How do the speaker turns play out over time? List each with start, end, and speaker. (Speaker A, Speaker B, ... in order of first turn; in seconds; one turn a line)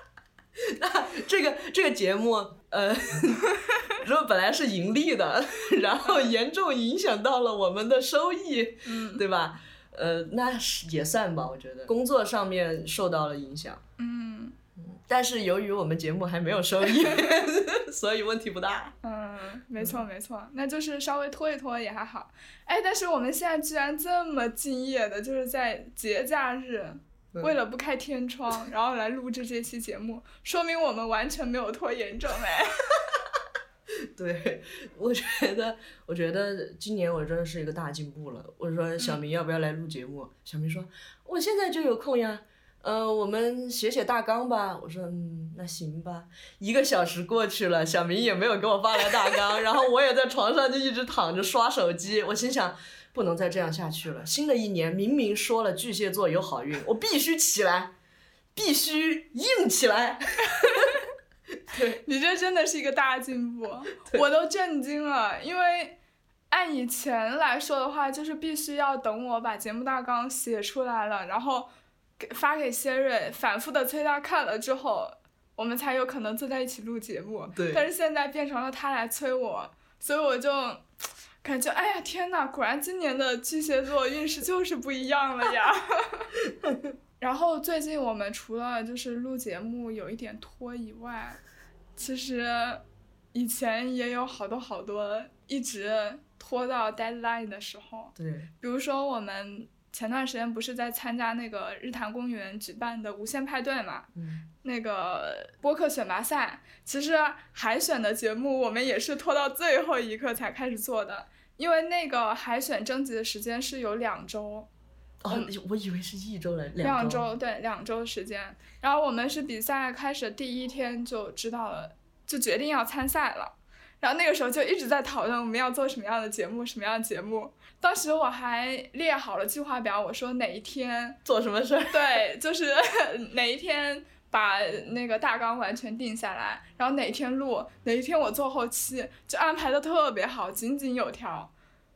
Speaker A: 0.6-13.8
Speaker B: 8.8-9.2
Speaker B: 14.0-14.5
Speaker A: 14.8-18.9
Speaker B: 19.0-33.0
Speaker A: 34.0-57.9
Speaker A: 58.5-61.0
Speaker A: 61.7-62.0
Speaker B: 62.0-66.0
Speaker B: 66.5-80.8
Speaker A: 77.5-77.8
Speaker B: 81.4-86.3
Speaker B: 87.2-91.4
Speaker B: 92.0-104.1
Speaker A: 98.2-98.5
Speaker A: 104.1-104.4
Speaker B: 104.6-114.7
Speaker A: 115.2-117.2
Speaker B: 116.8-131.2
Speaker A: 131.2-132.2
Speaker B: 131.9-141.5